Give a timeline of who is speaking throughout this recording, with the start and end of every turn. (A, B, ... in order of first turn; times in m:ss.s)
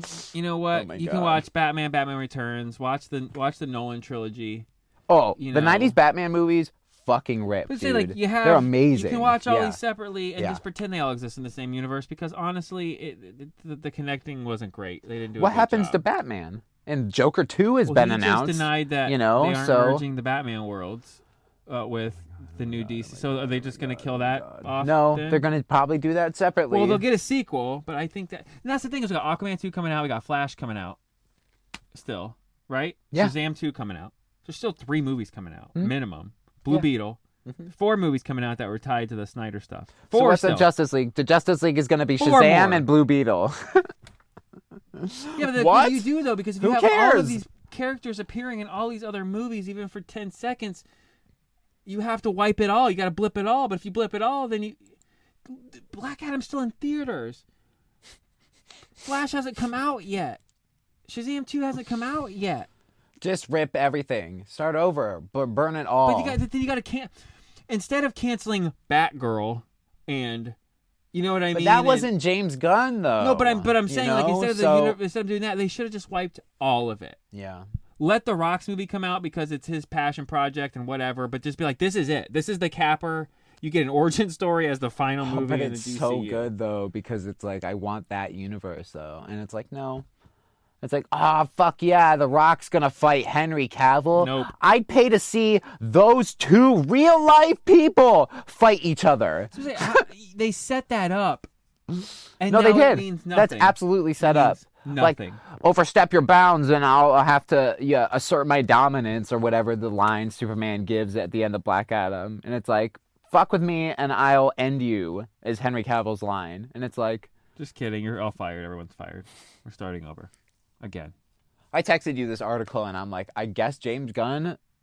0:00.3-0:04.7 A
0:00.7-0:01.4 B
0:05.1-0:09.8 B
0:05.4-0:06.0 A
0:07.7-0:16.0 A
0:15.4-0:20.0 B
0:17.8-0:25.4 A
0:22.5-0:27.0 B
0:26.7-0:31.0 A
0:31.9-0:37.2 A
0:37.7-0:40.7 A
0:40.1-0:43.9 B
0:42.2-0:42.9 A
0:44.9-0:47.4 B
0:45.3-0:50.8 A
0:51.8-0:54.8 A
0:55.5-0:57.4 A
0:59.0-1:00.4 A
1:01.1-1:02.7 A
1:03.2-1:06.4 B
1:06.0-1:07.1 A
1:07.7-1:10.6 A
1:11.1-1:12.1 A
1:11.5-1:15.0 B
1:13.2-1:17.2 A
1:17.3-1:17.6 B
1:18.0-1:26.5 A
1:25.2-1:30.0 B
1:30.8-1:40.0 B
1:34.2-1:34.5 A
1:39.5-1:41.5 A
1:42.4-1:45.4 A
1:42.5-1:57.3 B
1:57.6-2:00.3 A
2:00.8-2:01.1 A
2:01.7-2:04.6 B